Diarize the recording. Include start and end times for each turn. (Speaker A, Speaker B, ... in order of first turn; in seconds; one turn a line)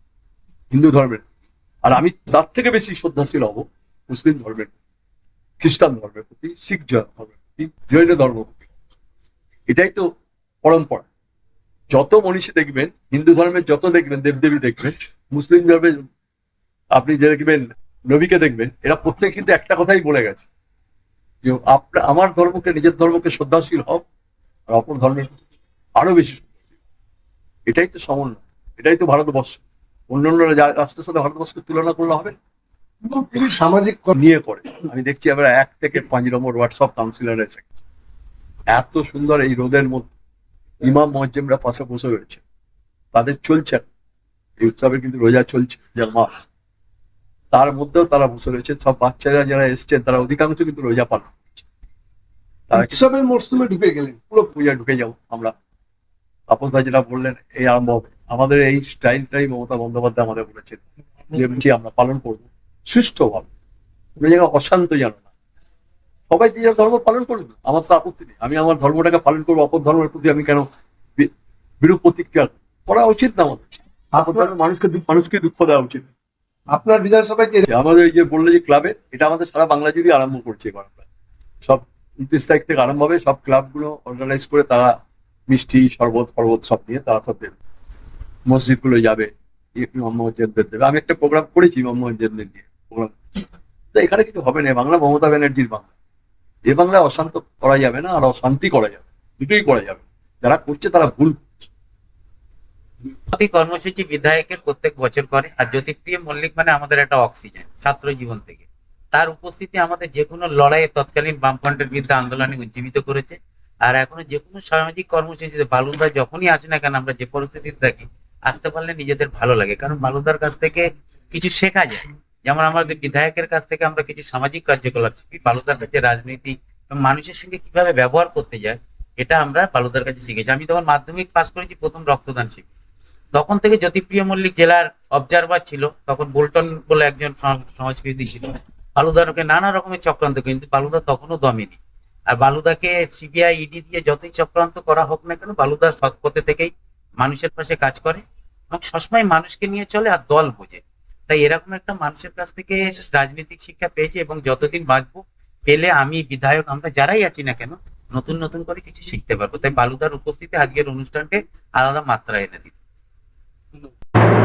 Speaker A: 0.7-1.2
Speaker A: 1.8-4.7
Speaker A: 5.6-8.7
Speaker A: 9.7-10.1
Speaker A: 10.6-11.1
Speaker A: 11.9-16.0
Speaker A: 16.9-20.4
Speaker A: 21.4-24.0
Speaker A: 24.7-25.4
Speaker A: 26.0-26.5
Speaker A: 27.6-32.4
Speaker B: 33.0-34.1
Speaker A: 34.1-37.6
Speaker A: 38.7-40.1
Speaker A: 40.8-42.4
Speaker A: 43.1-43.9
Speaker A: 44.6-46.5
Speaker A: 47.5-51.6
Speaker A: 52.7-53.0
Speaker B: 52.7-54.2
Speaker A: 54.3-55.5
Speaker A: 56.5-60.8
Speaker A: 61.3-63.5
Speaker A: 64.2-65.2
Speaker A: 66.3-76.0
Speaker B: 74.1-74.5
Speaker B: 76.7-77.7
Speaker A: 77.7-81.0
Speaker A: 81.6-84.9
Speaker A: 85.5-87.5
Speaker A: 88.5-95.9
Speaker A: 96.7-101.4
Speaker C: 103.3-132.7
Speaker C: 133.3-141.8
Speaker C: 142.3-162.7